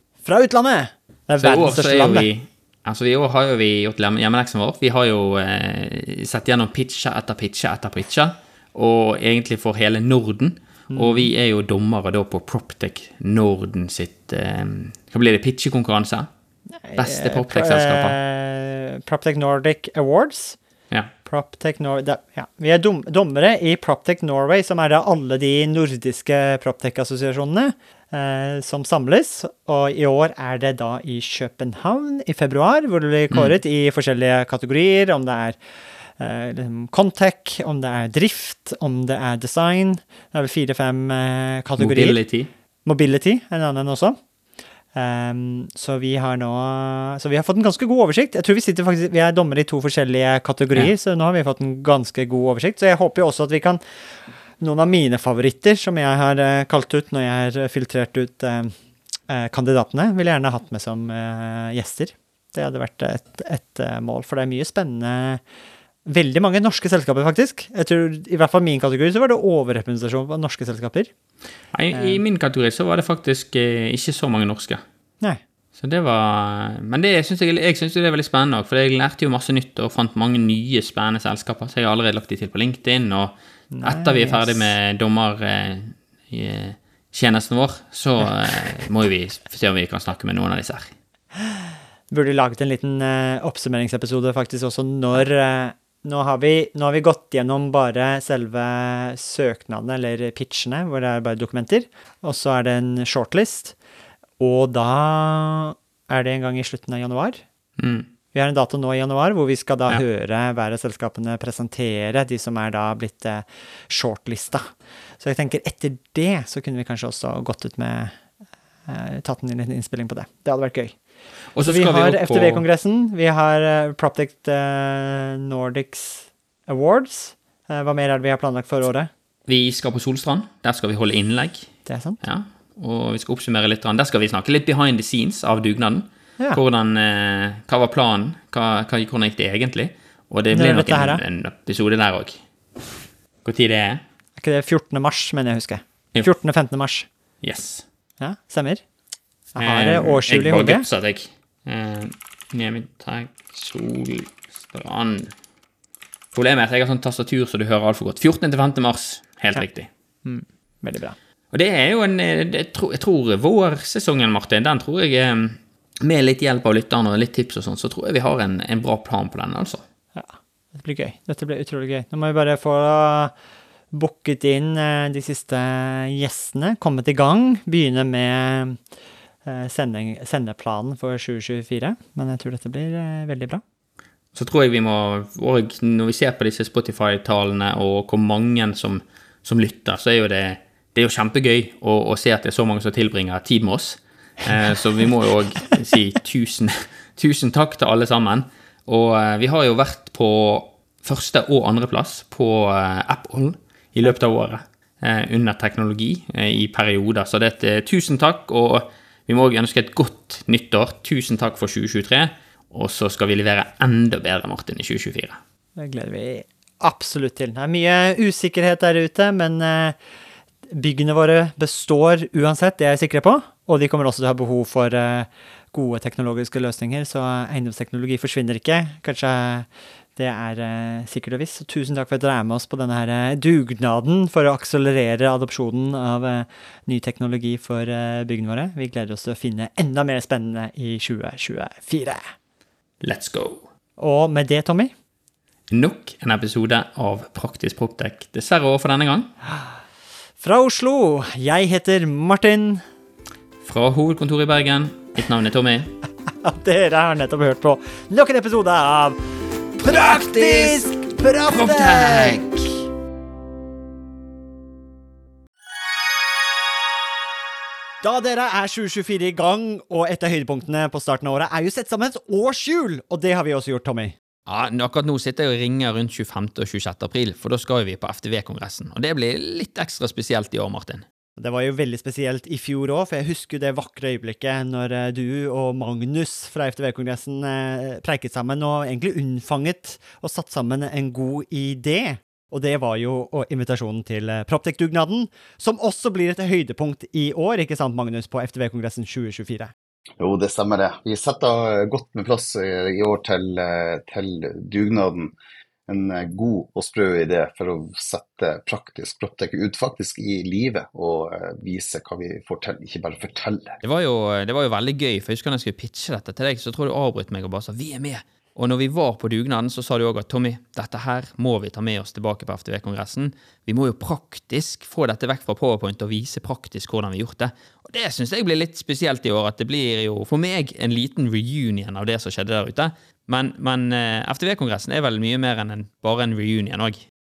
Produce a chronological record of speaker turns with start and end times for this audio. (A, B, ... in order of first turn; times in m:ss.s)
0:00.2-0:02.3 A
0:01.4-0:16.3 B
0:10.9-0:11.3 A
0:16.8-0:20.6 A
0:17.0-0:18.2 B
0:21.2-0:35.6 A
0:36.2-0:42.2 A
0:41.8-0:42.5 B
0:42.8-0:44.2 A
0:44.9-0:53.8 A
0:54.6-0:58.7 A
0:59.3-1:05.4 A
1:06.0-1:11.1 A
1:11.7-1:14.8 B
1:11.9-1:12.2 A
1:15.8-1:30.9 B
1:23.7-1:24.7 A
1:32.1-1:43.7 A
1:44.4-1:47.4 A
1:47.8-1:48.1 B
1:48.3-1:58.1 A
1:58.9-2:00.9 A
2:01.5-2:02.6 B
2:01.6-2:09.1 A
2:09.5-2:11.7 B
2:11.8-2:12.2 A
2:12.2-2:22.4 B
2:20.5-2:21.2 A
2:23.4-2:24.0 B
2:24.4-2:27.1 A
2:27.4-2:27.8 B
2:28.2-2:28.8 A
2:29.5-2:30.8 A
2:29.6-2:35.3 B
2:36.3-2:39.9 B
2:40.2-2:41.2 A
2:41.5-2:49.8 B
2:50.2-2:53.3 A
2:53.9-2:58.8 A
2:59.4-3:03.6 A
3:04.3-3:35.4 B
3:35.8-3:40.0 A
3:40.7-4:02.2 A
4:03.0-4:03.6 B
4:04.0-4:04.9 A
4:05.7-4:09.3 B
4:10.4-4:12.8 A
4:13.6-4:15.9 B
4:16.4-4:19.2 A
4:19.8-4:22.5 A
4:19.8-4:22.8 B
4:28.0-4:34.2 A
4:34.4-4:41.0 B
4:41.4-4:59.7 A
5:00.2-5:05.3 C
5:05.9-5:13.8 C
5:13.8-5:37.0 B